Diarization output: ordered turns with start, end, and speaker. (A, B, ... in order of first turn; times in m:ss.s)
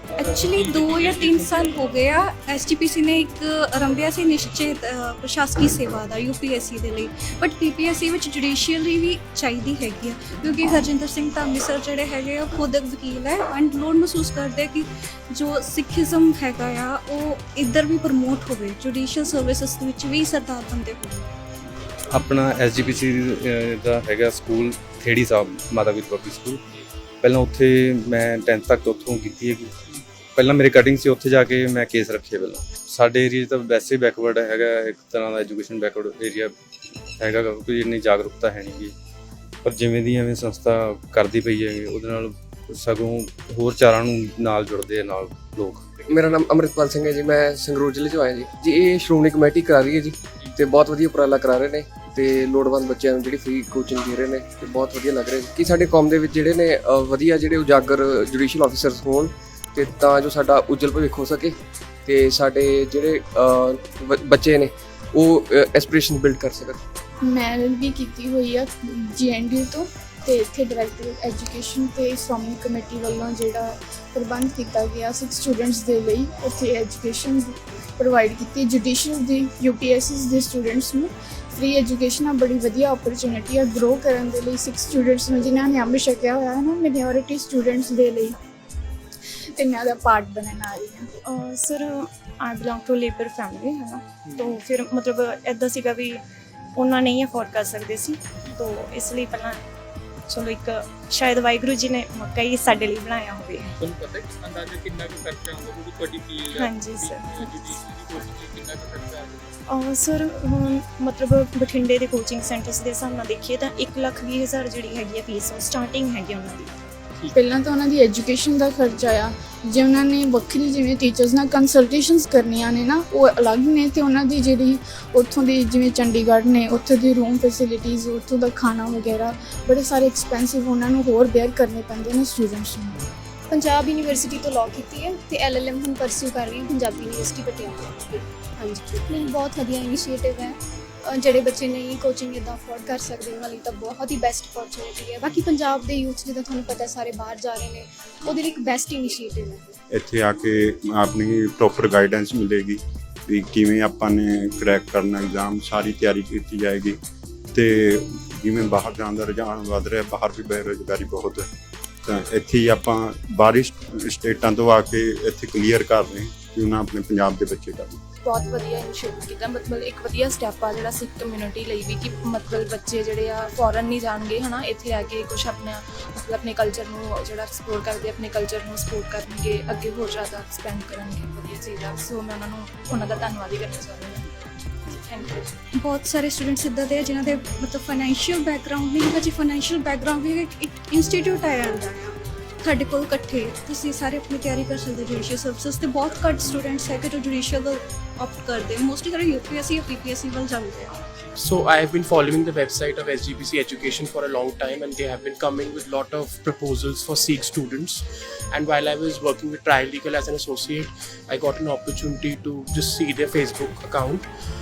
0:00.2-0:21.3 A
0:00.4-0:01.9 B
0:22.1-0:26.6 C
0:27.2-0:29.7 C
0:30.4-0:36.5 C
0:37.2-0:38.9 C
0:39.6-0:45.9 C
0:46.1-1:06.8 D
1:07.2-1:28.4 E
1:29.6-1:31.1 E
1:31.2-1:36.2 F
1:34.2-1:34.5 B
1:36.8-1:39.6 F
1:40.3-1:43.7 F
1:43.8-1:49.6 B
1:46.5-1:47.8 F
1:49.7-1:56.7 F
1:57.3-2:13.1 E
2:13.5-2:29.8 G
2:29.9-2:37.0 H
2:37.5-2:41.5 H
2:42.1-2:48.0 H
2:48.2-3:04.3 I
3:05.0-3:05.5 I
3:05.8-3:21.0 A
3:21.4-3:34.2 J